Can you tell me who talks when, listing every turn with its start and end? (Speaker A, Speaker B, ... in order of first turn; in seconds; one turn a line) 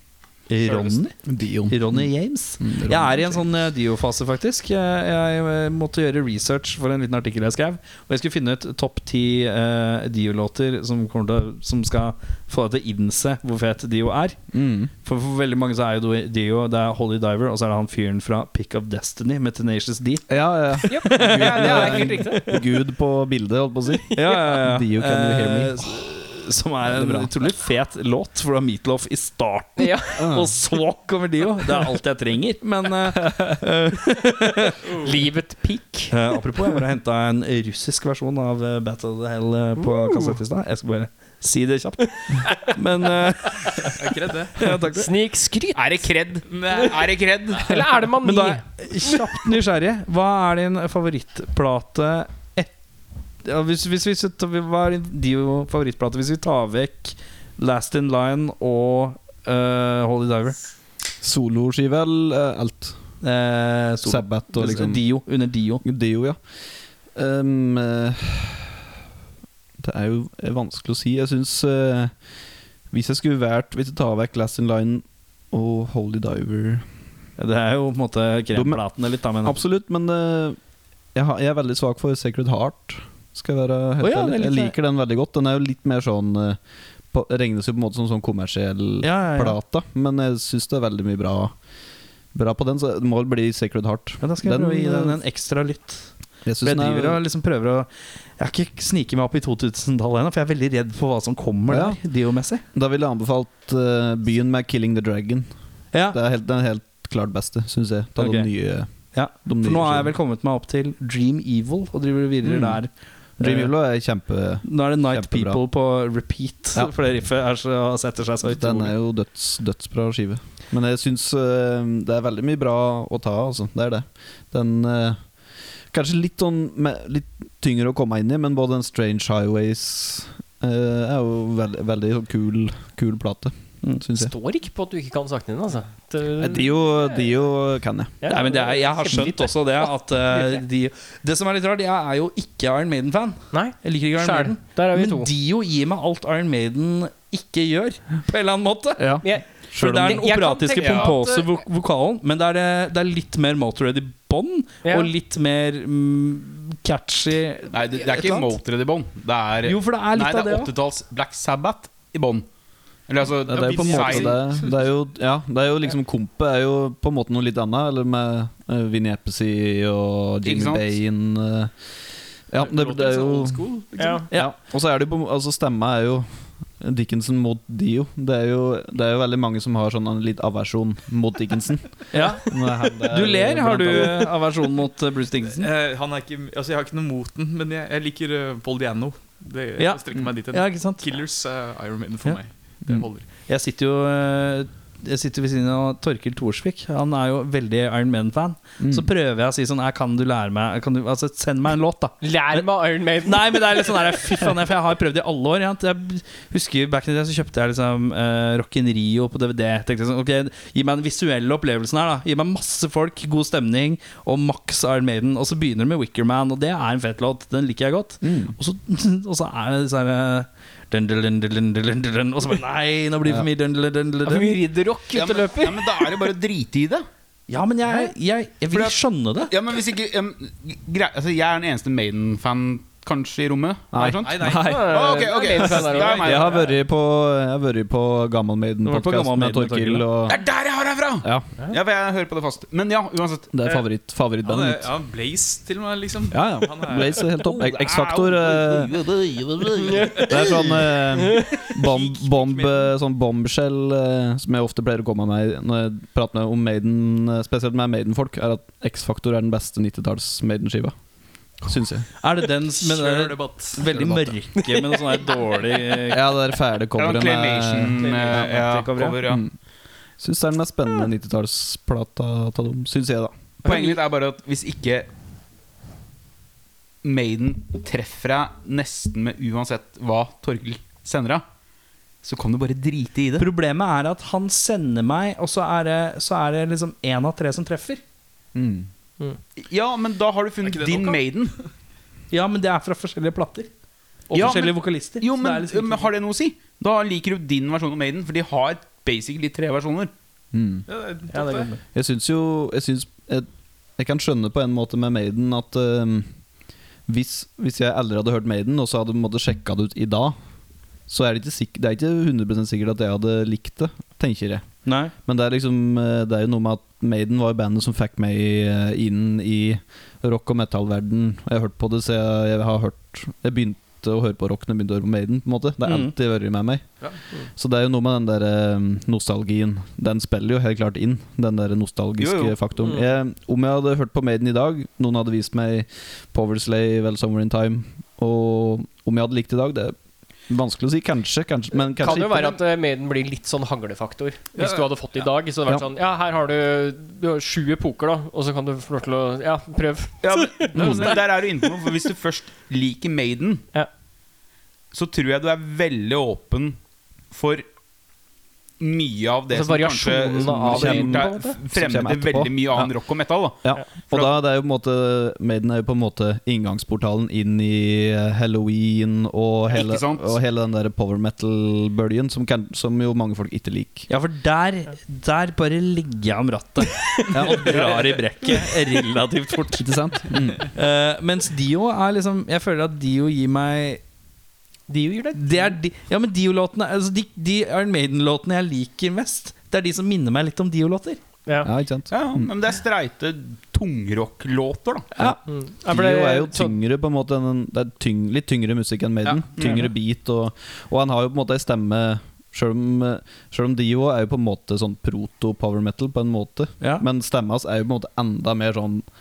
Speaker A: 0.5-14.4
Speaker B: 1.2-3.4
Speaker B: 14.5-14.9
Speaker A: 15.0-22.6
Speaker B: 20.3-25.8
Speaker C: 20.9-22.6
Speaker A: 24.1-34.8
Speaker B: 26.9-27.3
Speaker C: 29.8-30.3
Speaker B: 30.2-30.5
Speaker D: 34.8-35.2
Speaker C: 35.0-36.2
Speaker A: 36.1-45.1
Speaker C: 39.8-40.4
Speaker D: 44.0-44.6
Speaker C: 44.9-46.0
Speaker E: 45.7-47.7
Speaker D: 46.5-47.1
Speaker C: 47.6-49.4
Speaker A: 48.1-52.7
Speaker A: 53.4-60.6
Speaker B: 61.2-63.0
Speaker A: 63.2-65.8
Speaker B: 64.0-65.0
Speaker B: 65.8-66.4
Speaker B: 67.1-68.8
Speaker B: 69.8-72.1
Speaker B: 72.9-76.8
Speaker A: 77.4-79.6
Speaker B: 78.5-78.8
Speaker B: 79.4-80.6
Speaker B: 81.1-86.6
Speaker A: 84.0-84.7
Speaker B: 87.1-91.5
Speaker A: 89.0-89.6
Speaker B: 92.3-95.2
Speaker A: 94.2-96.1
Speaker B: 96.5-97.2
Speaker A: 96.6-102.6
Speaker B: 101.7-102.0
Speaker B: 102.7-105.5
Speaker A: 105.9-106.2
Speaker B: 106.1-110.1
Speaker A: 108.2-108.5
Speaker A: 109.1-113.7
Speaker B: 112.4-112.8
Speaker B: 113.4-115.6
Speaker A: 114.6-118.9
Speaker B: 118.4-125.2
Speaker B: 125.9-134.3
Speaker C: 134.1-137.3
Speaker B: 136.4-138.2
Speaker C: 138.2-140.6
Speaker A: 138.3-158.5
Speaker C: 143.5-145.3
Speaker B: 149.0-150.2
Speaker C: 149.2-151.6
Speaker E: 150.8-151.1
Speaker C: 154.8-155.1
Speaker E: 157.7-162.4
Speaker A: 159.6-160.7
Speaker E: 163.1-164.4
Speaker B: 163.5-171.7
Speaker D: 163.5-164.7
Speaker E: 170.4-170.9
Speaker B: 172.5-173.6
Speaker D: 172.6-174.3
Speaker C: 174.0-174.2
Speaker B: 174.3-176.3
Speaker B: 176.8-184.3
Speaker A: 182.1-185.7
Speaker D: 185.4-193.2
Speaker A: 189.8-191.0
Speaker A: 193.5-202.7
Speaker B: 198.8-199.1
Speaker C: 202.2-204.5
Speaker A: 203.2-224.6
Speaker B: 218.2-218.5
Speaker C: 224.2-226.0
Speaker E: 225.1-227.1
Speaker A: 227.5-229.5
Speaker E: 228.7-236.6
Speaker B: 233.9-235.1
Speaker D: 234.2-234.9
Speaker C: 234.6-236.4
Speaker D: 235.6-236.7
Speaker B: 236.2-240.4
Speaker A: 238.8-240.1
Speaker E: 240.3-243.5
Speaker B: 243.5-244.9
Speaker D: 244.4-247.6
Speaker B: 246.3-249.0
Speaker E: 247.6-249.8
Speaker C: 249.8-250.4
Speaker D: 250.0-250.5
Speaker B: 250.2-260.9
Speaker C: 251.1-251.6
Speaker D: 251.4-252.9
Speaker B: 261.6-262.1
Speaker A: 262.2-266.4
Speaker D: 262.7-264.3
Speaker C: 264.6-265.8
Speaker B: 266.1-268.5
Speaker E: 266.9-269.4
Speaker A: 268.0-269.2
Speaker B: 269.2-269.5
Speaker B: 270.2-273.3
Speaker E: 273.6-275.1
Speaker E: 277.0-281.4
Speaker E: 282.2-283.5
Speaker A: 283.4-288.0
Speaker E: 288.6-288.9
Speaker E: 289.6-291.6
Speaker D: 290.6-291.2
Speaker A: 292.3-293.7
Speaker A: 294.3-296.1
Speaker E: 294.3-300.1
Speaker B: 300.5-300.9
Speaker D: 300.9-301.7
Speaker A: 301.3-301.8
Speaker B: 301.9-306.3
Speaker B: 307.1-310.4
Speaker B: 311.1-326.9
Speaker A: 314.8-315.1
Speaker A: 325.8-326.1
Speaker B: 327.5-339.9
Speaker E: 332.2-332.6
Speaker C: 332.8-333.1
Speaker B: 340.5-342.6
Speaker C: 341.9-351.1
Speaker D: 344.5-344.8
Speaker E: 350.2-353.6
Speaker B: 350.7-351.1
Speaker E: 354.9-356.8
Speaker E: 357.3-357.6
Speaker E: 358.8-364.4
Speaker C: 359.5-361.6
Speaker B: 360.4-362.9
Speaker B: 363.6-374.1
Speaker E: 369.7-370.4
Speaker A: 374.1-384.0
Speaker B: 377.3-377.7
Speaker E: 377.7-378.1
Speaker B: 379.8-380.7
Speaker C: 384.9-385.7
Speaker A: 385.4-391.2
Speaker B: 391.6-392.5
Speaker E: 392.1-395.1
Speaker B: 395.2-409.0
Speaker C: 395.5-396.7
Speaker E: 399.6-399.9
Speaker A: 406.8-407.0